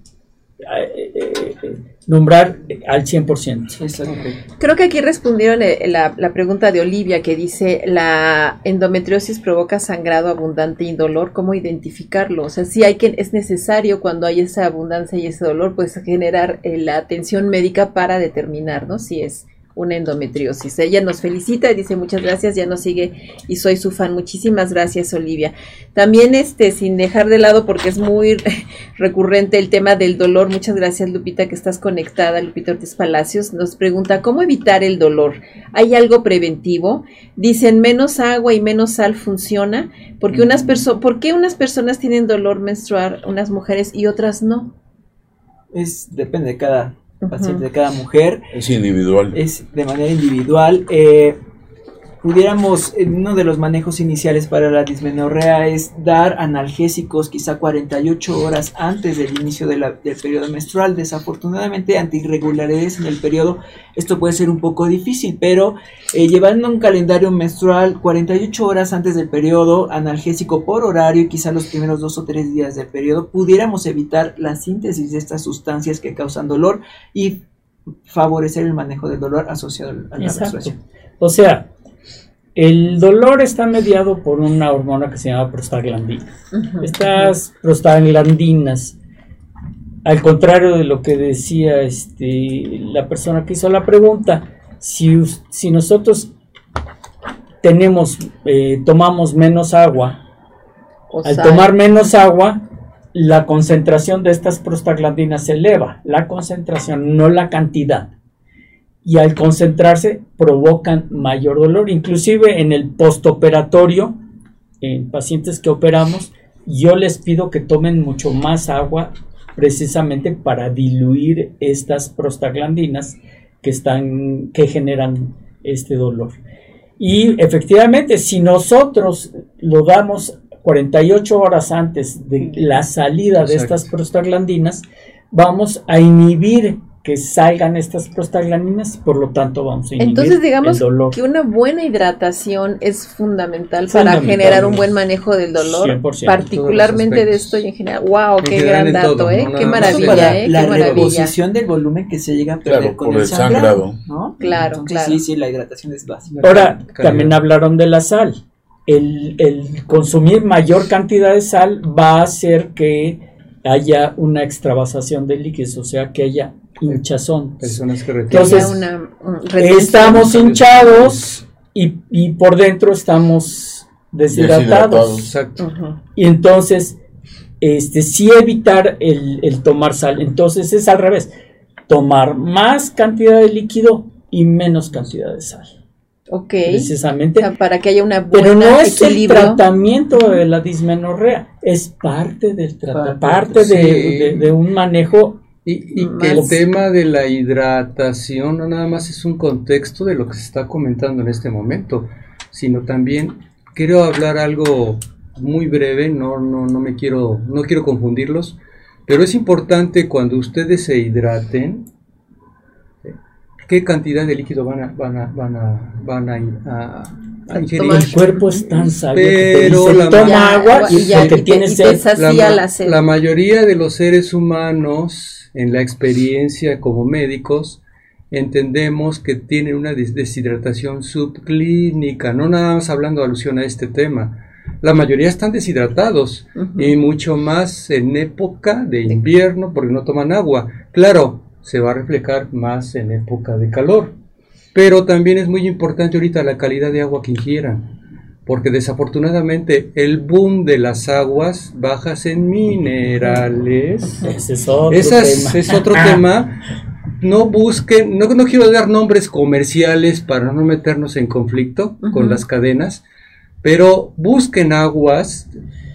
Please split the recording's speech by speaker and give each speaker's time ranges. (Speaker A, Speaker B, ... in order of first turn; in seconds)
Speaker A: 0.6-3.8, 80.2-81.7, 82.5-86.3, 86.8-88.9, 90.0-96.3, 97.6-100.2, 101.2-108.1, 109.0-114.2, 114.8-126.4, 127.0-141.2, 143.9-144.9, 145.6-146.4, 156.4-168.8, 169.6-175.3, 176.2-176.9, 177.6-181.3, 181.9-185.7, 186.7-187.5, 188.3-195.5, 196.3-196.6, 217.8-222.0, 254.2-256.2
Speaker B: 3.8-4.3, 45.7-48.5, 49.3-51.4, 52.2-77.4, 78.1-80.8, 149.6-156.4, 192.9-193.8
Speaker C: 4.6-44.7, 47.3-47.6, 86.5-87.2, 101.1-101.7, 140.0-151.3, 154.4-155.2, 168.3-170.3, 175.6-176.0, 186.3-189.6, 196.0-196.6, 217.5-218.6, 220.1-223.0, 236.6-236.9, 262.0-262.4
Speaker D: 40.3-40.9, 133.4-133.8, 146.4-147.6, 148.4-151.1, 156.3-157.4, 167.6-168.8, 170.0-171.4, 175.2-175.7, 193.5-194.5, 195.6-208.6, 209.1-211.8, 213.0-221.4, 221.9-227.8, 228.3-244.1, 244.7-247.8, 248.4-254.3, 254.9-256.6, 257.2-263.0, 263.6-265.5
Speaker E: 48.5-49.4, 152.6-154.0, 174.3-175.3